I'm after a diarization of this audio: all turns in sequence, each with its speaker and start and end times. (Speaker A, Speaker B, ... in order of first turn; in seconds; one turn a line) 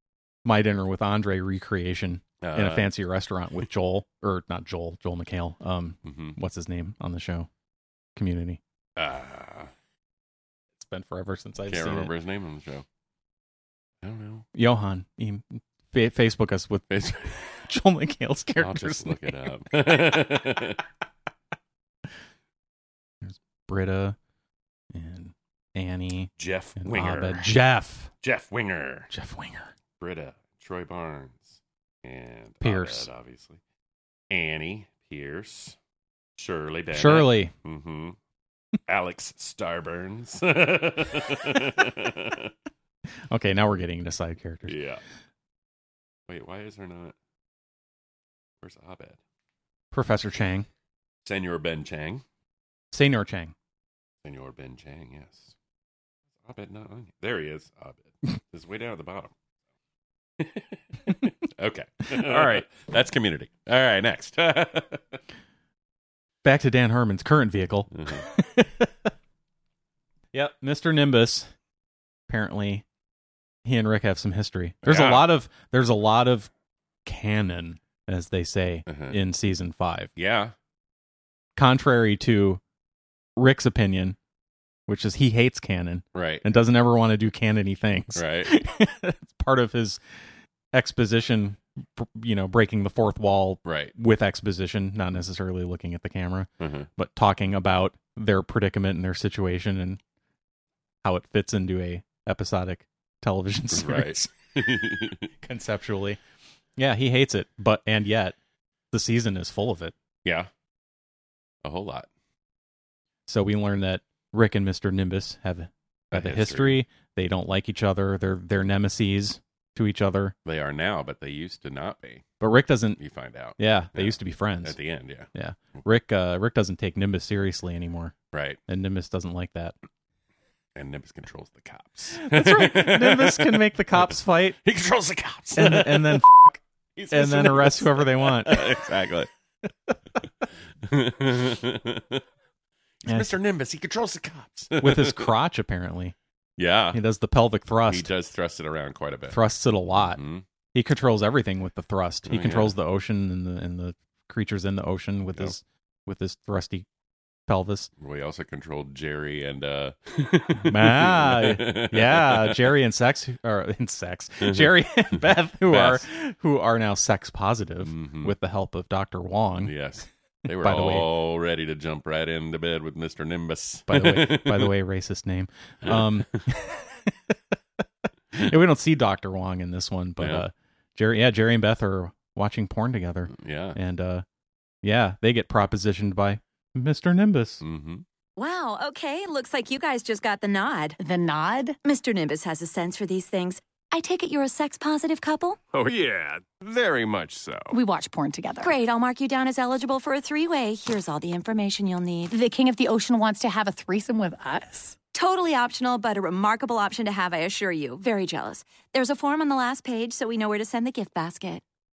Speaker A: 0.5-7.5
Speaker B: 2.4-2.9
Speaker B: 6.0-6.4
Speaker A: 8.2-8.6
Speaker B: 9.0-9.7
Speaker A: 10.8-12.1
Speaker B: 11.7-12.8
Speaker B: 14.0-14.5
Speaker A: 14.5-16.9
Speaker B: 16.9-17.6
Speaker A: 17.6-19.4
Speaker B: 18.6-20.8
Speaker A: 23.2-24.2
Speaker A: 24.9-28.1
Speaker B: 26.4-27.5
Speaker B: 28.2-29.1
Speaker A: 29.1-29.7
Speaker B: 30.0-33.6
Speaker A: 32.6-33.1
Speaker B: 34.3-35.8
Speaker B: 36.4-38.2
Speaker A: 36.9-37.5
Speaker B: 38.9-42.5
Speaker A: 43.3-44.8
Speaker B: 44.7-45.0
Speaker B: 46.3-47.1
Speaker B: 48.6-49.2
Speaker A: 49.9-50.7
Speaker B: 51.2-52.2
Speaker A: 52.9-53.5
Speaker B: 54.2-55.5
Speaker B: 56.4-59.3
Speaker B: 60.4-65.2
Speaker A: 62.1-62.6
Speaker A: 66.4-68.9
Speaker B: 67.9-68.2
Speaker A: 70.3-71.5
Speaker A: 72.3-72.8
Speaker A: 73.7-76.5
Speaker B: 74.8-75.3
Speaker A: 77.0-80.1
Speaker B: 78.9-79.2
Speaker B: 80.2-80.5
Speaker A: 81.6-82.6
Speaker A: 83.4-84.2
Speaker A: 84.9-90.0
Speaker B: 86.1-86.5
Speaker B: 88.1-88.5
Speaker A: 90.7-100.0
Speaker B: 93.7-93.9
Speaker B: 96.6-96.9
Speaker A: 101.0-104.3
Speaker B: 103.7-105.3
Speaker A: 105.4-106.2
Speaker A: 106.8-108.4
Speaker A: 108.9-109.9
Speaker B: 110.2-110.5
Speaker B: 111.6-112.1
Speaker A: 113.3-120.3
Speaker B: 116.1-116.8
Speaker B: 120.5-122.3
Speaker A: 122.4-123.0
Speaker B: 123.0-125.3
Speaker A: 123.6-124.8
Speaker A: 125.3-128.2
Speaker B: 128.3-128.6
Speaker A: 128.7-129.8
Speaker B: 130.8-136.2
Speaker A: 132.2-134.6
Speaker A: 135.6-138.6
Speaker B: 137.0-139.3
Speaker B: 140.8-142.2
Speaker B: 143.0-145.3
Speaker A: 144.8-146.2
Speaker B: 146.6-147.0
Speaker A: 146.9-148.1
Speaker B: 147.9-149.4
Speaker A: 149.3-150.2
Speaker B: 149.9-150.4
Speaker A: 150.7-156.9
Speaker B: 152.3-152.8
Speaker A: 157.5-157.9
Speaker B: 158.0-162.8
Speaker A: 160.6-169.8
Speaker B: 164.4-166.1
Speaker B: 167.8-168.3
Speaker B: 169.6-174.8
Speaker A: 170.5-171.1
Speaker A: 173.9-177.3
Speaker B: 175.8-176.4
Speaker A: 178.3-184.2
Speaker B: 180.2-180.5
Speaker B: 183.3-183.8
Speaker A: 184.8-187.6
Speaker B: 187.6-188.0
Speaker C: 188.4-191.0
Speaker D: 191.0-191.8
Speaker C: 191.8-195.6
Speaker E: 195.7-197.8
Speaker D: 197.7-198.8
Speaker C: 198.6-202.3
Speaker D: 202.3-205.0
Speaker C: 205.1-211.6